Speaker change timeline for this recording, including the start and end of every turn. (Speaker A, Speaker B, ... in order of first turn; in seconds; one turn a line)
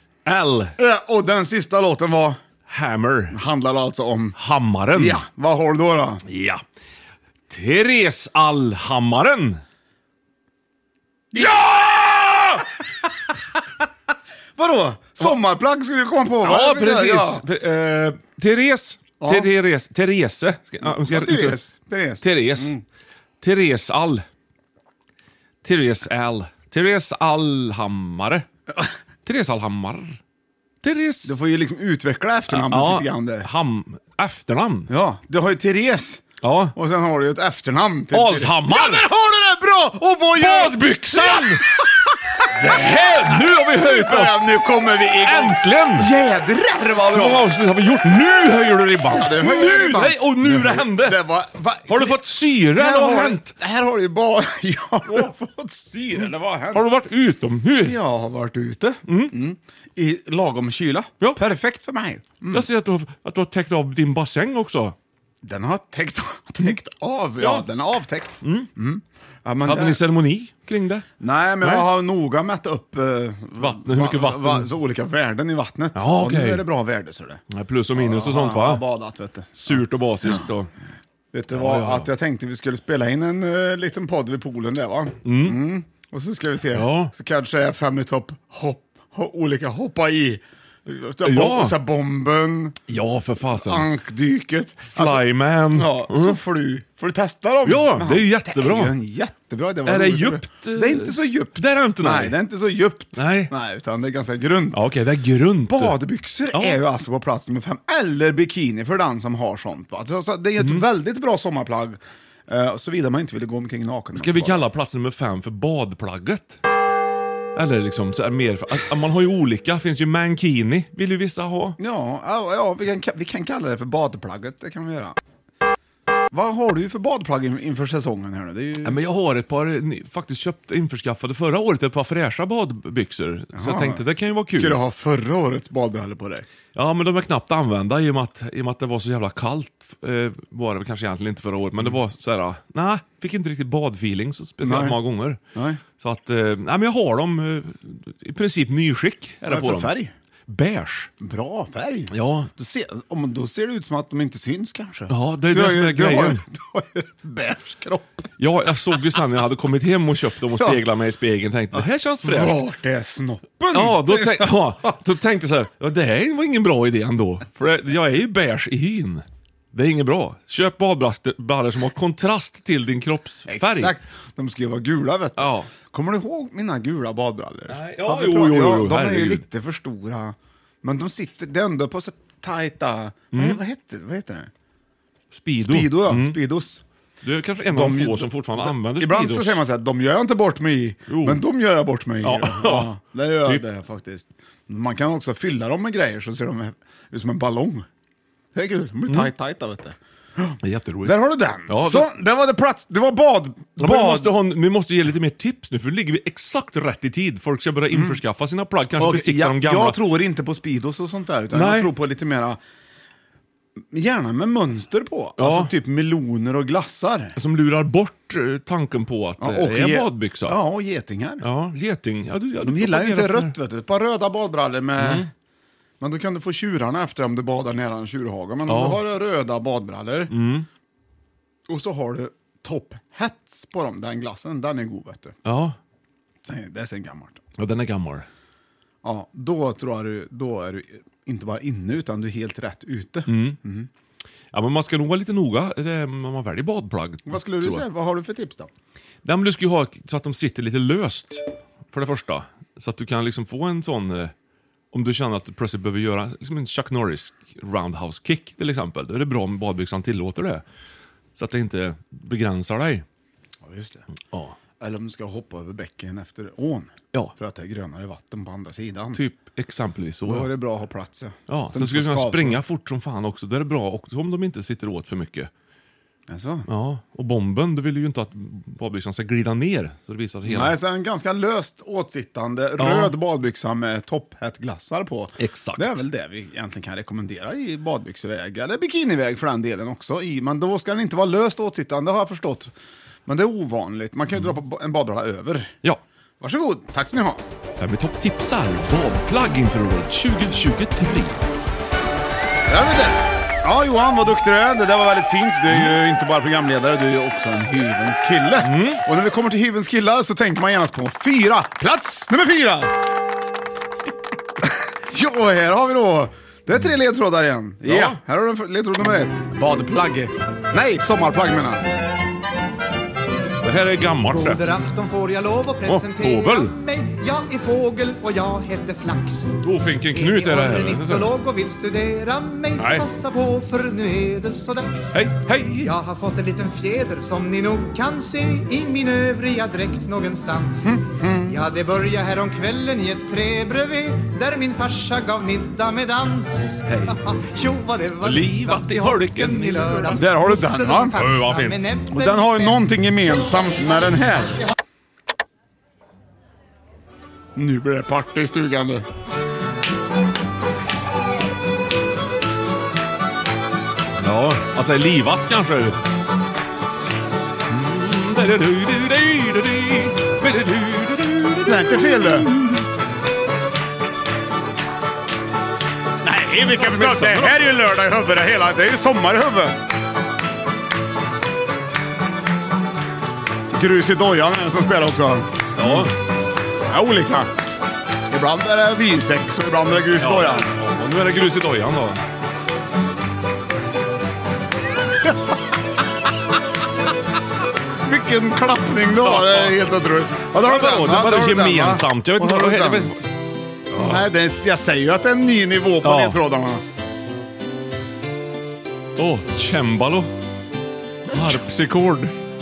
Speaker A: 0.2-0.7
Speaker B: 0.8-2.4
Speaker A: 2.7-3.4
Speaker B: 3.3-4.3
Speaker A: 4.4-5.2
Speaker B: 4.9-6.2
Speaker A: 6.3-6.6
Speaker A: 7.5-9.6
Speaker B: 11.3-11.7
Speaker A: 11.3-12.7
Speaker B: 14.6-17.4
Speaker A: 16.4-21.6
Speaker B: 19.2-19.5
Speaker B: 20.8-22.8
Speaker A: 22.2-22.7
Speaker A: 23.4-24.2
Speaker A: 25.6-28.5
Speaker A: 29.2-30.2
Speaker A: 30.8-31.4
Speaker B: 31.2-33.5
Speaker A: 32.5-34.9
Speaker B: 34.9-47.5
Speaker A: 36.4-36.7
Speaker A: 38.1-39.1
Speaker A: 40.4-41.6
Speaker A: 42.5-44.5
Speaker A: 45.2-46.1
Speaker A: 47.1-51.2
Speaker B: 49.1-56.9
Speaker A: 51.9-53.5
Speaker A: 56.7-58.0
Speaker B: 57.8-62.6
Speaker A: 59.1-59.3
Speaker A: 62.5-64.9
Speaker B: 65.4-70.0
Speaker A: 67.4-67.7
Speaker A: 68.4-68.7
Speaker A: 69.6-71.1
Speaker B: 71.2-77.4
Speaker A: 73.6-74.7
Speaker A: 76.0-76.6
Speaker A: 77.5-78.8
Speaker B: 78.0-80.5
Speaker A: 79.6-80.7
Speaker B: 81.3-92.8
Speaker A: 81.5-82.1
Speaker A: 85.2-85.6
Speaker A: 86.7-87.1
Speaker A: 91.2-91.8
Speaker A: 92.9-93.9
Speaker B: 93.6-104.8
Speaker A: 94.9-96.4
Speaker A: 97.6-98.9
Speaker A: 99.9-102.4
Speaker A: 103.2-103.5
Speaker A: 104.7-106.0
Speaker B: 105.7-114.7
Speaker A: 106.5-106.8
Speaker A: 110.6-110.8
Speaker A: 114.1-116.6
Speaker A: 117.5-121.8
Speaker B: 121.8-125.2
Speaker B: 126.3-129.0
Speaker A: 128.8-134.8
Speaker B: 133.5-136.4
Speaker A: 136.7-145.4
Speaker B: 144.6-145.0
Speaker B: 145.5-145.8
Speaker A: 146.0-149.9
Speaker B: 149.5-150.1
Speaker A: 150.5-151.1
Speaker B: 151.2-158.2
Speaker A: 152.1-152.5
Speaker A: 155.1-156.4
Speaker A: 158.4-162.6
Speaker B: 162.2-164.9
Speaker A: 163.7-173.9
Speaker B: 173.5-184.5
Speaker A: 175.4-175.7
Speaker A: 177.7-179.4
Speaker A: 183.3-183.6
Speaker A: 185.3-186.4
Speaker B: 185.6-186.8
Speaker A: 187.2-189.6
Speaker B: 187.7-197.9
Speaker A: 191.1-191.4
Speaker A: 192.2-192.9
Speaker B: 198.5-204.3
Speaker A: 200.6-202.1
Speaker A: 203.8-210.0
Speaker B: 207.9-208.2
Speaker B: 208.9-212.6
Speaker A: 211.5-211.9
Speaker B: 213.9-217.4
Speaker A: 215.4-215.7
Speaker A: 217.4-220.6
Speaker B: 219.4-221.4
Speaker A: 221.4-223.5
Speaker B: 222.6-225.3
Speaker A: 225.0-225.3
Speaker B: 226.0-230.3
Speaker A: 228.7-229.0
Speaker A: 230.3-230.7
Speaker B: 231.7-235.4
Speaker A: 235.4-235.8
Speaker B: 236.4-237.4
Speaker A: 237.6-238.2
Speaker B: 239.0-243.9
Speaker A: 243.3-243.6
Speaker A: 244.5-247.8
Speaker B: 247.3-248.7
Speaker A: 249.2-254.3
Speaker A: 254.9-260.6
Speaker A: 261.4-263.0
Speaker B: 263.6-264.0
Speaker B: 264.8-269.2
Speaker A: 269.1-270.5
Speaker B: 270.2-272.6
Speaker A: 271.5-275.5
Speaker B: 276.3-276.6
Speaker A: 276.7-280.7
Speaker B: 280.4-292.7
Speaker A: 282.8-283.1
Speaker A: 285.4-286.0
Speaker B: 293.2-295.7
Speaker B: 296.4-297.4
Speaker A: 297.8-301.4
Speaker B: 302.7-312.9
Speaker A: 308.6-309.0
Speaker B: 314.6-321.9
Speaker A: 317.9-318.2
Speaker A: 323.6-324.6
Speaker C: 324.3-329.6
Speaker A: 325.9-326.7
Speaker A: 329.6-331.3
Speaker C: 330.1-335.2
Speaker A: 332.8-333.0
Speaker A: 335.1-335.9
Speaker C: 335.8-340.9
Speaker B: 340.8-341.6
Speaker C: 341.5-352.8
Speaker A: 346.9-347.2
Speaker A: 348.2-350.1
Speaker B: 350.1-351.2
Speaker A: 351.1-351.8
Speaker B: 352.1-354.6
Speaker B: 357.6-359.0
Speaker A: 364.2-366.0
Speaker A: 367.7-372.8
Speaker B: 371.6-372.5
Speaker B: 376.2-379.8
Speaker A: 376.6-377.8
Speaker B: 383.7-386.1
Speaker A: 385.8-386.1
Speaker B: 386.9-387.5
Speaker B: 388.3-390.7
Speaker A: 390.2-392.2
Speaker B: 395.2-395.6
Speaker B: 398.1-403.1
Speaker A: 399.2-399.8
Speaker A: 400.5-403.2
Speaker B: 403.9-406.8
Speaker A: 403.9-404.2
Speaker A: 406.0-406.4
Speaker A: 409.2-410.3
Speaker B: 411.3-411.6
Speaker A: 411.3-412.3